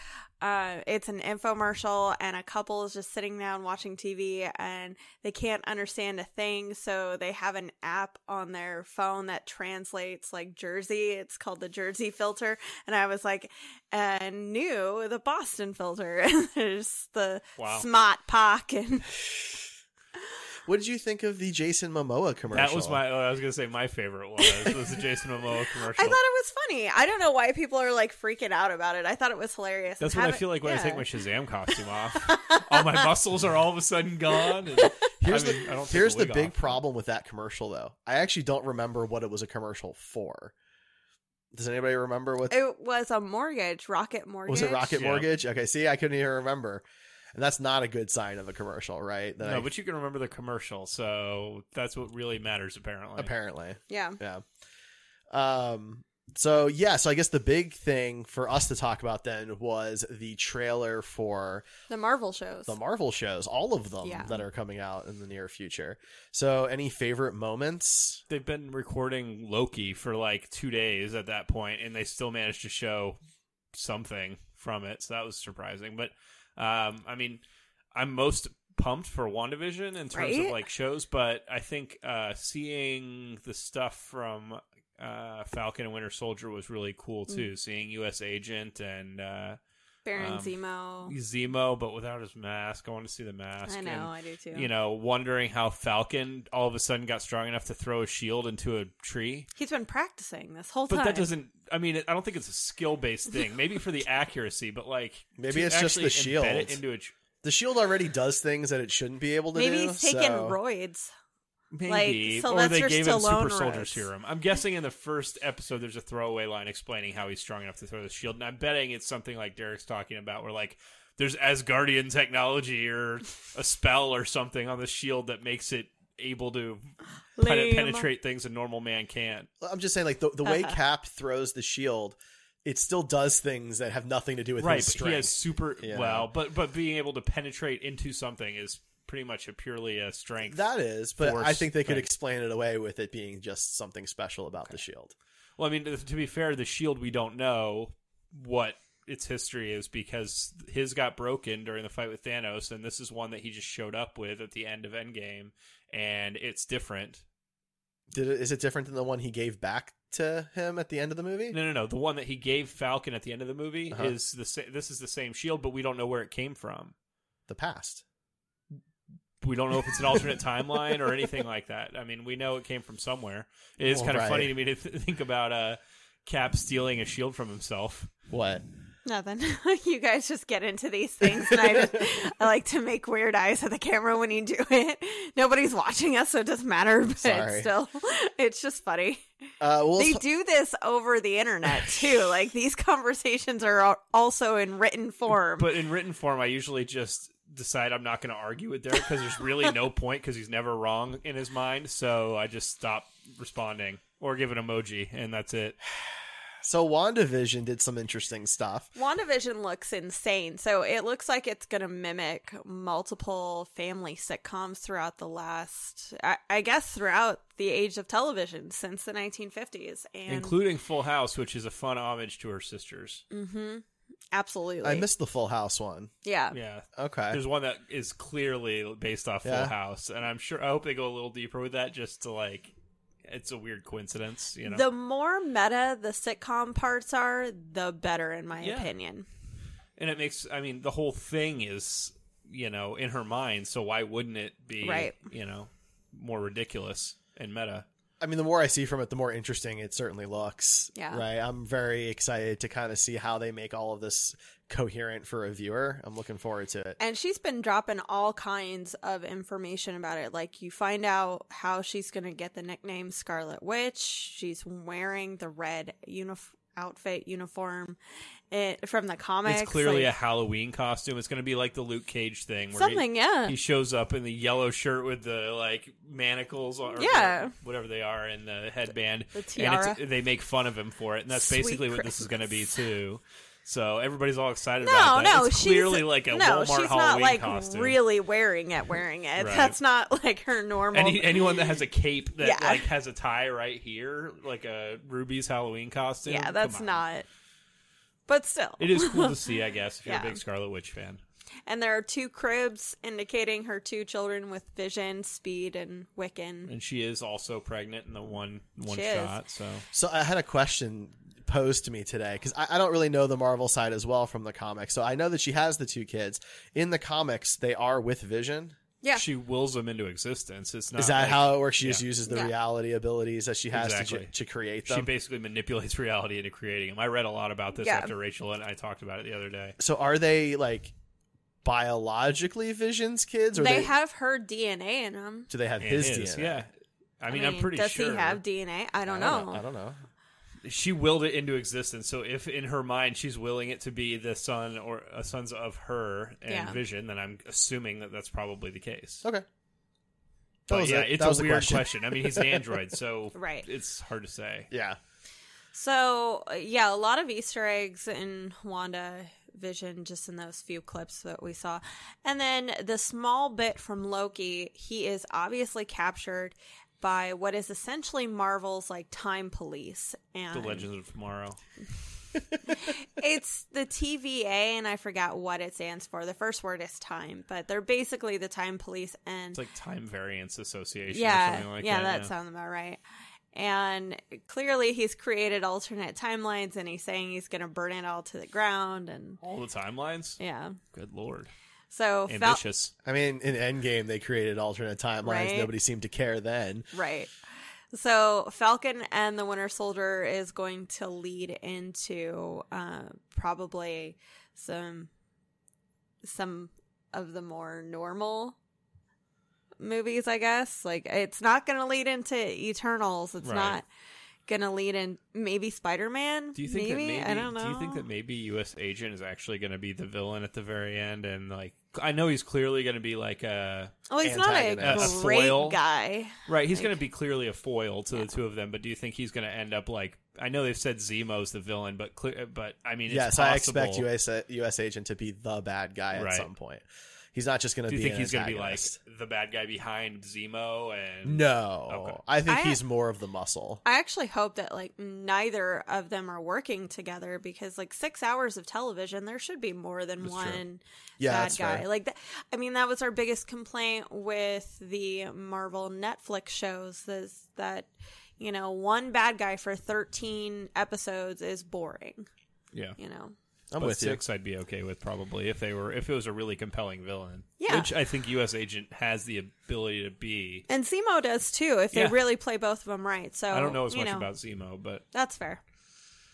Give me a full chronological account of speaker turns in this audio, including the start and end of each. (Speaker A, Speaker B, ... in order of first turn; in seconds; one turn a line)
Speaker A: 0.4-19.1
Speaker B: 17.6-17.9
Speaker C: 20.6-23.0
Speaker B: 22.5-26.2
Speaker A: 24.4-24.7
Speaker A: 25.9-31.0
Speaker B: 30.0-36.8
Speaker A: 32.3-32.8
Speaker C: 35.2-40.5
Speaker C: 41.5-42.5
Speaker A: 42.5-45.0
Speaker C: 44.5-46.8
Speaker B: 44.9-45.3
Speaker C: 47.3-49.7
Speaker B: 49.4-53.3
Speaker C: 53.2-54.4
Speaker A: 53.9-54.2
Speaker C: 55.3-61.7
Speaker A: 61.9-62.8
Speaker C: 62.6-68.2
Speaker A: 64.0-64.4
Speaker B: 68.3-73.2
Speaker B: 73.7-77.4
Speaker B: 77.9-89.6
Speaker A: 80.1-80.6
Speaker A: 90.0-91.1
Speaker B: 90.2-99.5
Speaker A: 93.7-94.7
Speaker A: 99.6-101.3
Speaker B: 100.9-107.1
Speaker C: 105.4-106.8
Speaker C: 107.4-110.6
Speaker A: 109.5-111.1
Speaker B: 111.7-129.5
Speaker A: 111.9-114.0
Speaker A: 127.4-128.0
Speaker C: 129.6-136.3
Speaker A: 130.4-130.8
Speaker B: 134.6-140.6
Speaker C: 140.4-145.1
Speaker B: 141.2-142.1
Speaker B: 145.6-157.2
Speaker C: 158.1-161.6
Speaker B: 161.5-166.9
Speaker C: 167.5-168.0
Speaker B: 169.4-178.1
Speaker C: 173.8-174.5
Speaker C: 178.3-178.6
Speaker A: 179.0-189.2
Speaker C: 181.4-182.0
Speaker C: 187.2-187.7
Speaker C: 189.6-190.2
Speaker A: 190.0-195.7
Speaker B: 195.6-205.8
Speaker C: 206.6-208.9
Speaker A: 208.9-220.6
Speaker B: 220.3-223.2
Speaker A: 223.3-225.1
Speaker C: 224.8-226.1
Speaker A: 226.2-226.6
Speaker B: 226.5-232.7
Speaker C: 226.9-227.4
Speaker C: 229.4-229.7
Speaker B: 233.2-234.8
Speaker A: 234.7-239.2
Speaker B: 238.6-238.9
Speaker B: 240.0-247.8
Speaker A: 244.8-245.2
Speaker C: 248.2-257.0
Speaker A: 250.9-251.2
Speaker A: 257.0-268.0
Speaker A: 268.5-270.1
Speaker B: 269.4-288.0
Speaker A: 272.7-273.5
Speaker A: 276.9-277.5
Speaker A: 279.3-280.0
Speaker A: 281.3-282.3
Speaker A: 284.8-291.8
Speaker B: 289.4-289.8
Speaker B: 290.9-297.0
Speaker A: 292.4-292.9
Speaker A: 296.2-297.2
Speaker A: 298.3-299.4
Speaker B: 298.8-301.2
Speaker A: 300.1-300.4
Speaker A: 301.6-306.7
Speaker B: 306.7-309.8
Speaker A: 308.9-309.4
Speaker C: 309.9-318.8
Speaker B: 319.1-322.0
Speaker C: 320.9-325.1
Speaker A: 322.3-322.5
Speaker B: 323.7-324.3
Speaker B: 324.9-329.7
Speaker A: 327.8-328.1
Speaker C: 329.8-330.9
Speaker C: 331.6-333.9
Speaker A: 333.5-335.5
Speaker C: 335.5-336.6
Speaker B: 335.8-338.4
Speaker A: 337.3-339.6
Speaker C: 339.1-340.0
Speaker B: 340.6-349.2
Speaker A: 346.5-346.8
Speaker C: 350.7-352.7
Speaker B: 350.7-354.7
Speaker A: 353.3-353.6
Speaker C: 354.7-355.0
Speaker A: 355.7-370.9
Speaker B: 370.5-371.6
Speaker A: 372.7-379.6
Speaker B: 379.5-382.3
Speaker A: 381.1-383.0
Speaker A: 383.5-389.4
Speaker B: 389.4-390.4
Speaker A: 390.4-390.8
Speaker B: 390.9-391.5
Speaker A: 391.9-392.6
Speaker B: 392.3-392.9
Speaker C: 393.0-396.9
Speaker A: 395.2-395.7
Speaker A: 396.9-397.3
Speaker A: 397.9-405.1
Speaker A: 406.2-408.6
Speaker A: 409.8-413.8
Speaker B: 413.4-413.8
Speaker A: 414.5-418.0
Speaker B: 416.6-423.9
Speaker A: 424.1-426.9
Speaker C: 424.2-425.2
Speaker B: 424.8-425.8
Speaker B: 426.4-434.1
Speaker C: 433.1-438.9
Speaker B: 436.1-436.5
Speaker B: 437.9-442.2
Speaker C: 441.2-443.8
Speaker A: 442.5-442.8
Speaker A: 443.8-462.3
Speaker B: 450.2-450.6
Speaker C: 451.2-451.8
Speaker A: 463.0-463.3
Speaker C: 463.7-464.2
Speaker B: 463.8-470.6
Speaker A: 467.6-467.9
Speaker A: 470.7-474.3
Speaker B: 471.9-472.2
Speaker B: 473.5-475.0
Speaker A: 475.1-475.6